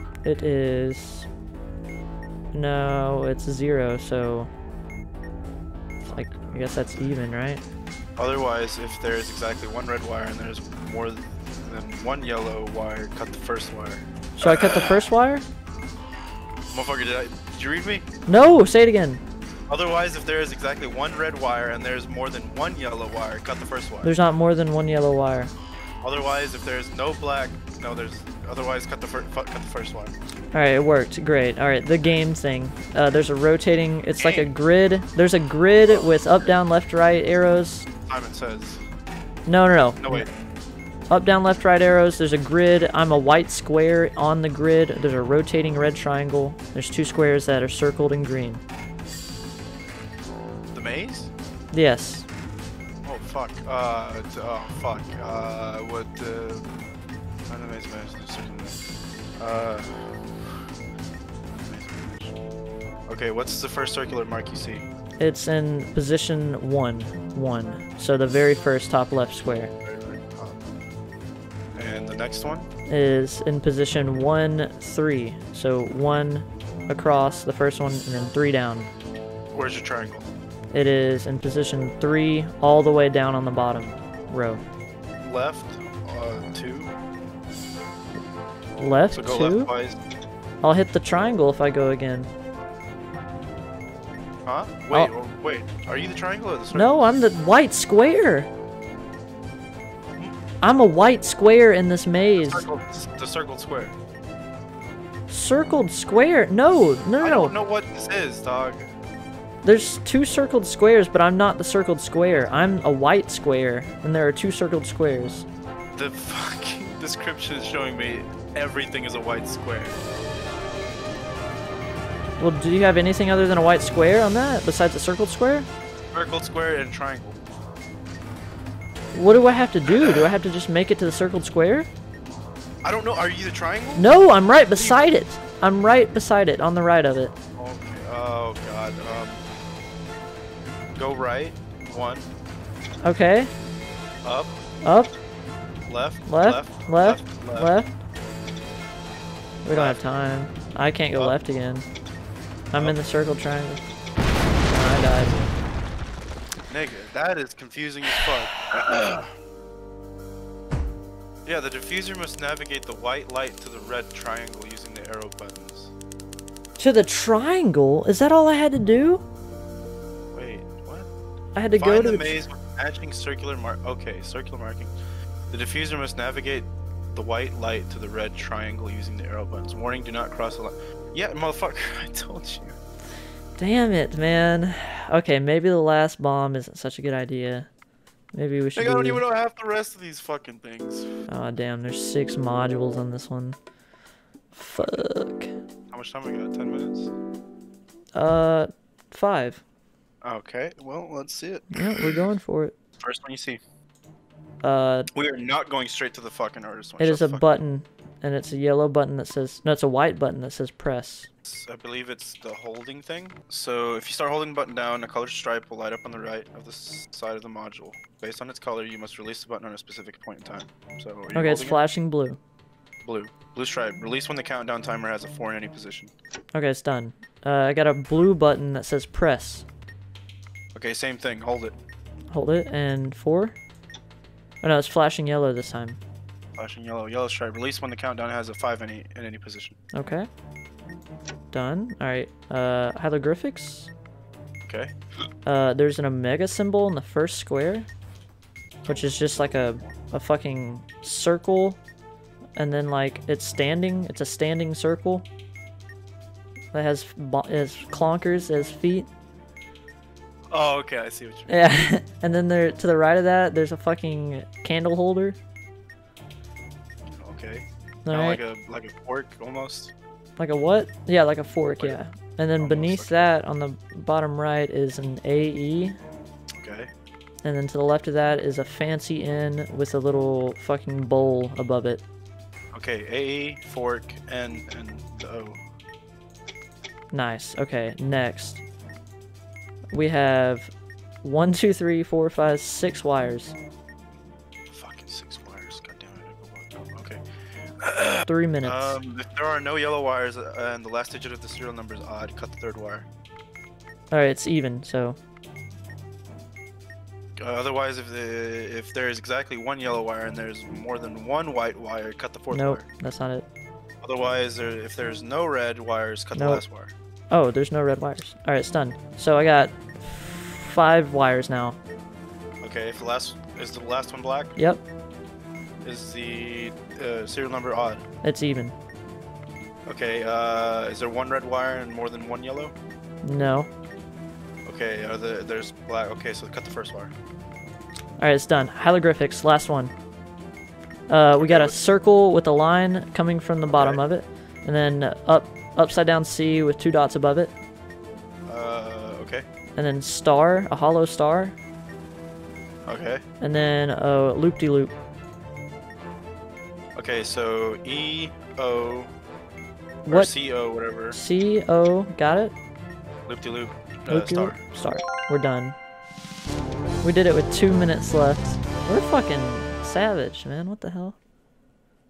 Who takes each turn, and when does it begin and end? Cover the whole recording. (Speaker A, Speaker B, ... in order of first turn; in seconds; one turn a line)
Speaker A: 0.2-1.3
Speaker A: 2.5-4.5
Speaker B: 6.0-7.1
Speaker A: 6.1-7.6
Speaker B: 8.2-15.0
Speaker A: 14.4-15.4
Speaker B: 16.7-18.1
Speaker A: 18.3-19.2
Speaker B: 19.7-24.1
Speaker A: 24.0-25.5
Speaker B: 26.0-30.1
Speaker A: 30.5-37.9
Speaker B: 34.2-34.5
Speaker B: 35.8-36.5
Speaker B: 38.0-38.8
Speaker A: 39.5-40.3
Speaker B: 40.0-40.3
Speaker A: 41.1-48.6
Speaker B: 50.7-51.3
Speaker A: 51.7-52.2
Speaker B: 53.0-56.7
Speaker B: 57.5-58.8
Speaker B: 59.4-60.5
Speaker B: 61.5-62.4
Speaker B: 63.1-64.9
Speaker A: 65.2-69.7
Speaker B: 69.8-70.6
Speaker B: 71.8-72.7
Speaker A: 72.9-78.9
Speaker B: 79.5-80.3
Speaker A: 80.7-84.6
Speaker B: 85.2-86.9
Speaker A: 88.8-89.7
Speaker B: 89.1-90.0
Speaker A: 90.6-92.3
Speaker B: 94.5-97.1
Speaker A: 96.7-98.5
Speaker A: 100.6-102.7
Speaker B: 102.4-104.0
Speaker A: 105.3-107.5
Speaker B: 107.2-108.9
Speaker A: 109.6-115.5
Speaker B: 115.9-120.0
Speaker A: 122.4-125.7
Speaker B: 126.1-127.4
Speaker A: 129.1-131.9
Speaker B: 129.9-130.3
Speaker B: 132.8-134.1
Speaker A: 133.9-137.3
Speaker B: 134.7-135.0
Speaker B: 137.6-139.4
Speaker B: 140.9-142.3
Speaker A: 143.0-143.5
Speaker B: 144.2-144.6
Speaker A: 144.8-145.1
Speaker B: 145.8-147.7
Speaker A: 146.3-147.9
Speaker A: 149.6-151.8
Speaker B: 149.7-150.0
Speaker A: 152.7-153.8
Speaker A: 154.7-155.5
Speaker B: 156.7-159.3
Speaker B: 161.4-165.9
Speaker A: 166.8-169.2
Speaker B: 170.3-171.1
Speaker A: 171.5-172.3
Speaker B: 171.7-174.9
Speaker B: 175.5-182.8
Speaker A: 183.6-187.7
Speaker A: 188.3-189.2
Speaker B: 188.8-191.1
Speaker A: 191.3-193.6
Speaker A: 194.5-195.5
Speaker B: 194.7-195.0
Speaker B: 195.9-197.1
Speaker A: 198.1-199.6
Speaker B: 200.2-202.2
Speaker A: 201.7-202.7
Speaker B: 203.0-203.6
Speaker A: 204.6-205.1
Speaker B: 205.1-207.6
Speaker A: 207.0-211.3
Speaker B: 211.4-221.8
Speaker A: 221.3-222.4
Speaker B: 223.0-226.1
Speaker A: 226.5-229.7
Speaker B: 230.7-231.8
Speaker A: 232.3-233.6
Speaker A: 234.6-236.0
Speaker B: 236.5-239.8
Speaker A: 239.9-240.3
Speaker A: 241.5-243.9
Speaker B: 244.7-244.9
Speaker A: 245.4-247.9
Speaker B: 248.8-249.9
Speaker A: 248.9-251.8
Speaker A: 252.6-255.2
Speaker A: 256.7-259.1
Speaker B: 260.5-261.6
Speaker A: 261.5-265.4
Speaker B: 267.1-269.9
Speaker A: 268.0-268.4
Speaker A: 270.4-276.0
Speaker B: 272.6-273.3
Speaker B: 276.6-276.9
Speaker A: 277.4-282.0
Speaker B: 282.7-285.6
Speaker A: 287.1-288.6
Speaker A: 289.9-290.7
Speaker A: 291.2-293.5
Speaker B: 294.7-297.2
Speaker B: 297.8-303.1
Speaker A: 298.2-299.0
Speaker A: 304.1-305.2
Speaker B: 307.4-312.9
Speaker A: 312.5-313.5
Speaker B: 314.0-316.9
Speaker A: 316.4-316.6
Speaker A: 317.3-321.8
Speaker B: 322.6-324.5
Speaker A: 324.6-324.8
Speaker B: 325.8-328.1
Speaker A: 328.2-328.7
Speaker B: 329.9-332.7
Speaker A: 333.2-333.7
Speaker B: 334.6-337.1
Speaker A: 338.2-339.9
Speaker A: 341.1-347.5
Speaker B: 341.4-341.8
Speaker B: 343.7-344.0
Speaker B: 348.4-349.4
Speaker A: 349.8-351.6
Speaker B: 352.9-353.2
Speaker A: 353.4-354.9
Speaker B: 356.9-359.1
Speaker B: 360.0-361.2
Speaker A: 360.1-360.3
Speaker A: 361.1-362.5
Speaker B: 363.3-364.6
Speaker A: 364.1-365.8
Speaker A: 367.0-371.2